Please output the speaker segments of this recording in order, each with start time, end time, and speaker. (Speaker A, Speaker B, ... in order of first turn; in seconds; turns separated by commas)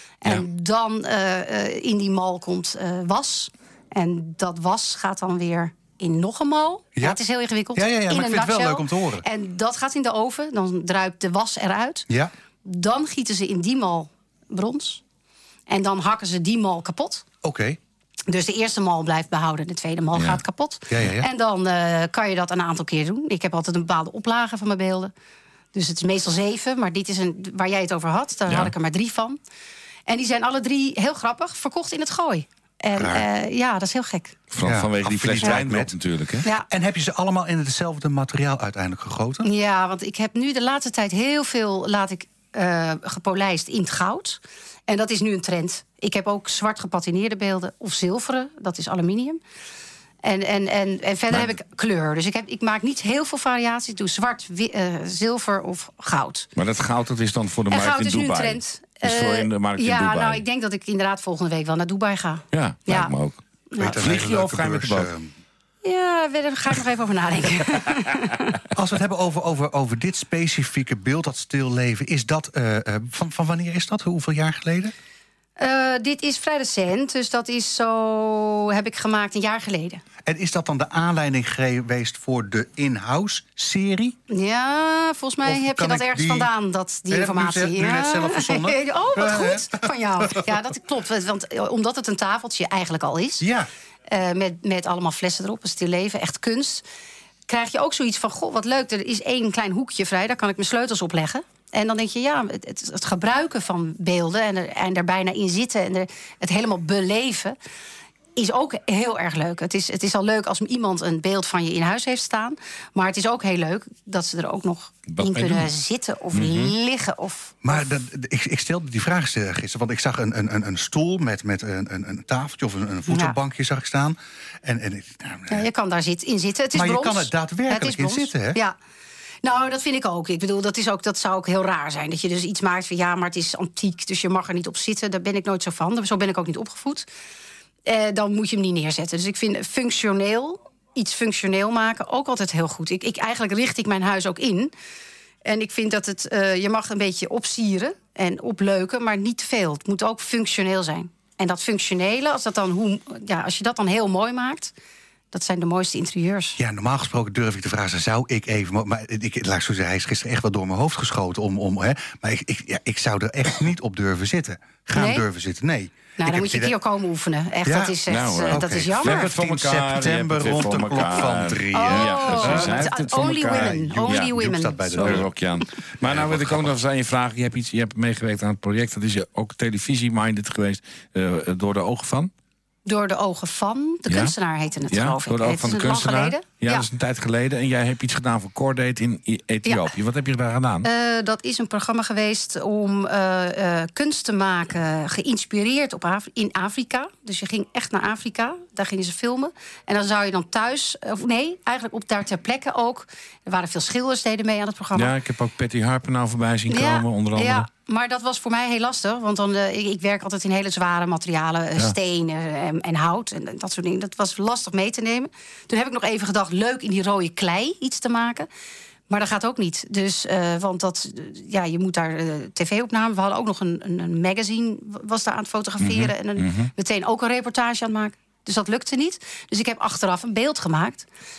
Speaker A: 0.2-12.1, Speaker B: 7.8-9.2, Speaker A: 12.7-15.0, Speaker A: 15.7-17.2, Speaker B: 17.4-17.8, Speaker A: 18.3-25.1, Speaker C: 20.1-20.4, Speaker B: 20.9-21.3, Speaker A: 25.8-29.4, Speaker C: 28.5-28.7, Speaker A: 30.1-34.4, Speaker B: 33.0-33.3, Speaker C: 34.5-36.5, Speaker B: 34.6-36.0, Speaker B: 36.7-39.5, Speaker A: 39.4-49.4, Speaker A: 50.2-56.5, Speaker C: 56.6-60.4, Speaker A: 57.7-63.1, Speaker C: 62.5-65.1, Speaker B: 63.8-65.3, Speaker A: 65.8-68.4, Speaker B: 68.7-74.9, Speaker A: 75.6-80.0, Speaker B: 80.2-84.2, Speaker A: 84.3-93.4, Speaker B: 85.5-86.5, Speaker B: 87.1-90.4, Speaker B: 93.4-93.7, Speaker A: 94.1-96.8, Speaker A: 97.5-107.5, Speaker A: 108.4-117.8, Speaker C: 115.1-115.7, Speaker C: 116.3-116.7, Speaker B: 117.6-125.7, Speaker A: 123.1-123.4, Speaker A: 125.5-128.8, Speaker B: 126.7-128.6, Speaker A: 129.4-137.1, Speaker A: 137.9-144.7, Speaker A: 145.4-154.7, Speaker A: 155.3-156.6, Speaker B: 156.6-166.8, Speaker A: 164.9-165.3, Speaker A: 166.2-169.3, Speaker B: 167.7-175.3, Speaker C: 168.1-174.3, Speaker A: 171.7-175.1, Speaker C: 174.9-182.3, Speaker B: 176.0-176.8, Speaker A: 182.9-186.9, Speaker C: 184.1-184.3, Speaker C: 184.9-190.9, Speaker A: 189.7-189.9, Speaker A: 190.8-205.1, Speaker C: 204.9-207.7, Speaker A: 206.7-218.5, Speaker A: 219.1-231.1, Speaker C: 225.8-226.7